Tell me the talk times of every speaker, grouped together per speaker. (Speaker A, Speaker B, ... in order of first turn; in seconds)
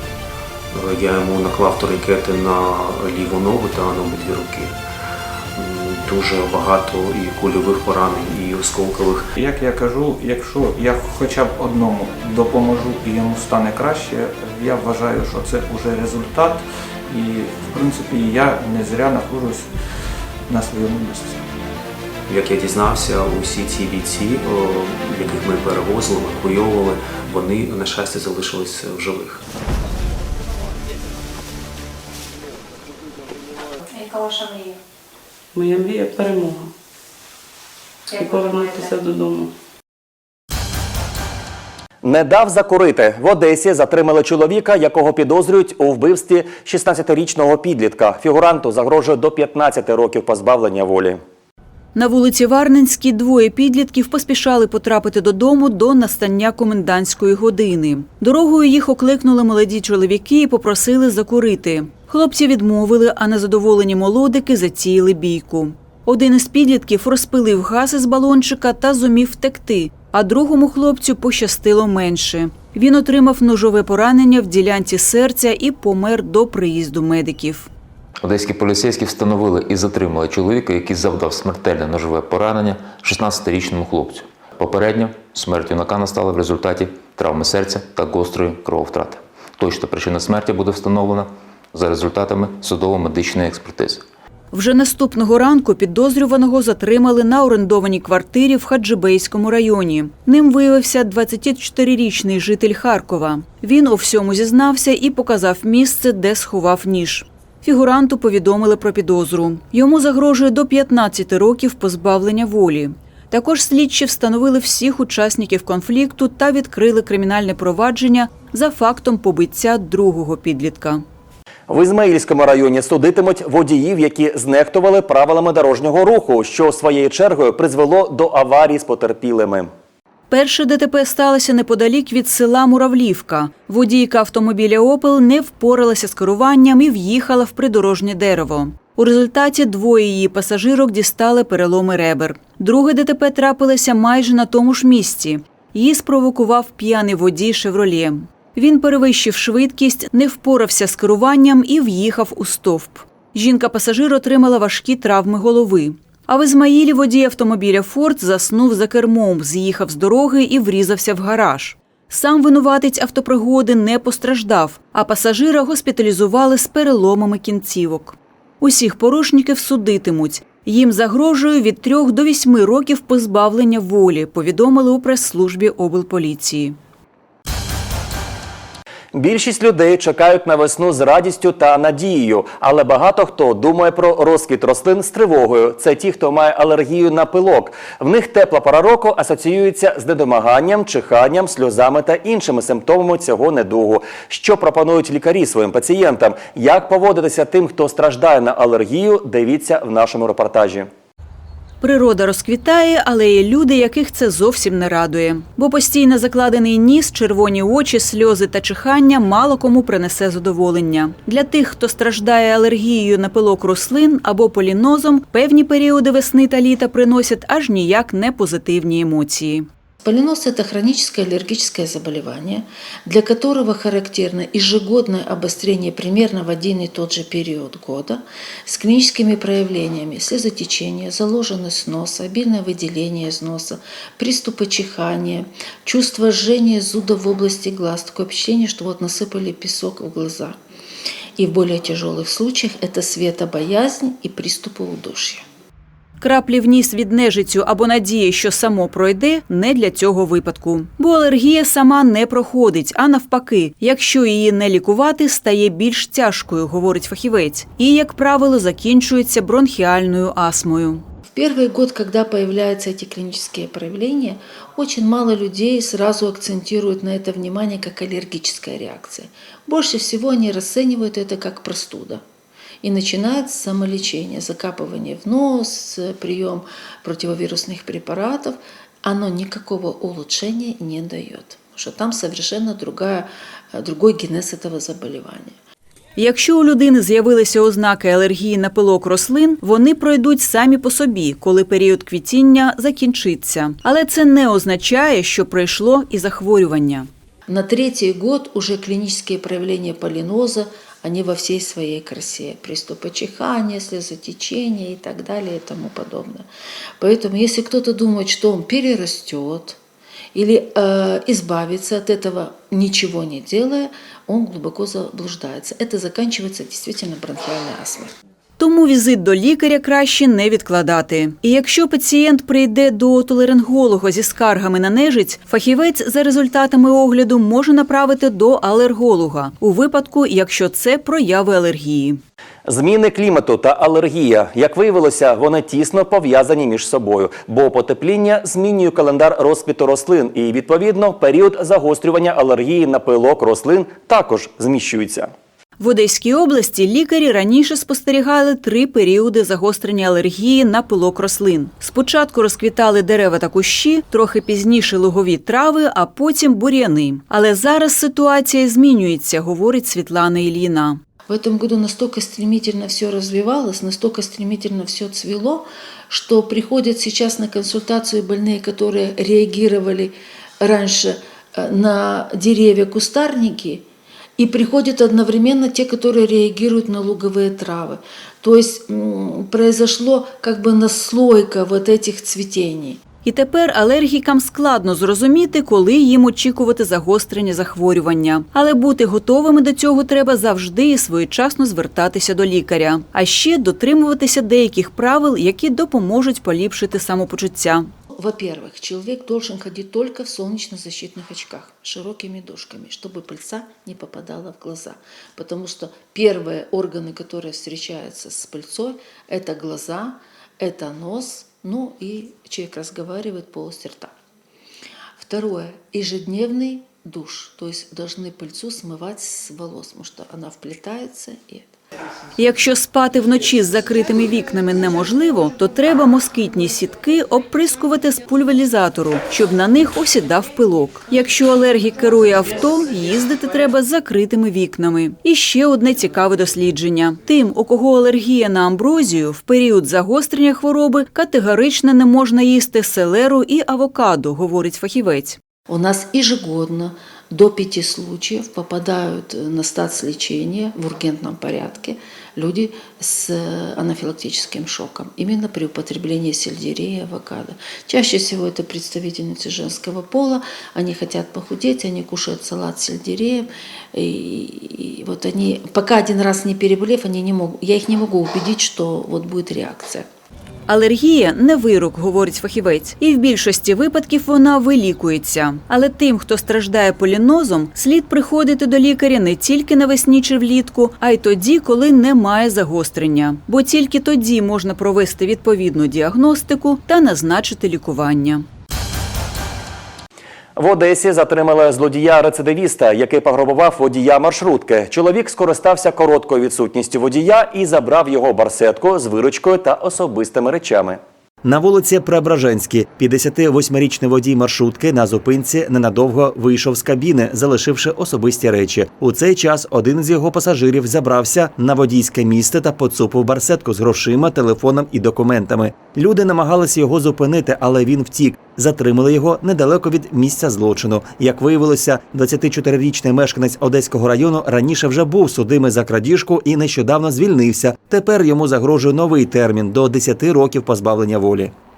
Speaker A: 0.7-4.8, 5.5-9.3, 22.3-29.4
Speaker B: 9.3-19.7, 20.5-21.4
Speaker C: 35.5-36.7, 38.1-39.5
Speaker D: 42.0-51.2, 121.7-129.7, 179.1-200.9, 332.6-345.3, 490.6-531.5
Speaker E: 51.9-77.7, 94.5-121.0, 130.3-176.8, 201.8-219.7, 246.2-261.0, 286.2-297.1, 318.6-332.2, 345.8-361.0, 383.2-397.9, 422.4-445.4, 470.7-488.4
Speaker F: 78.2-94.0
Speaker G: 220.0-240.6, 241.4-245.4, 261.3-272.2, 272.8-285.5, 297.5-306.5, 307.0-309.8, 310.3-318.1, 361.3-373.8, 374.4-383.0, 398.1-414.1, 415.2-421.7, 445.7-470.1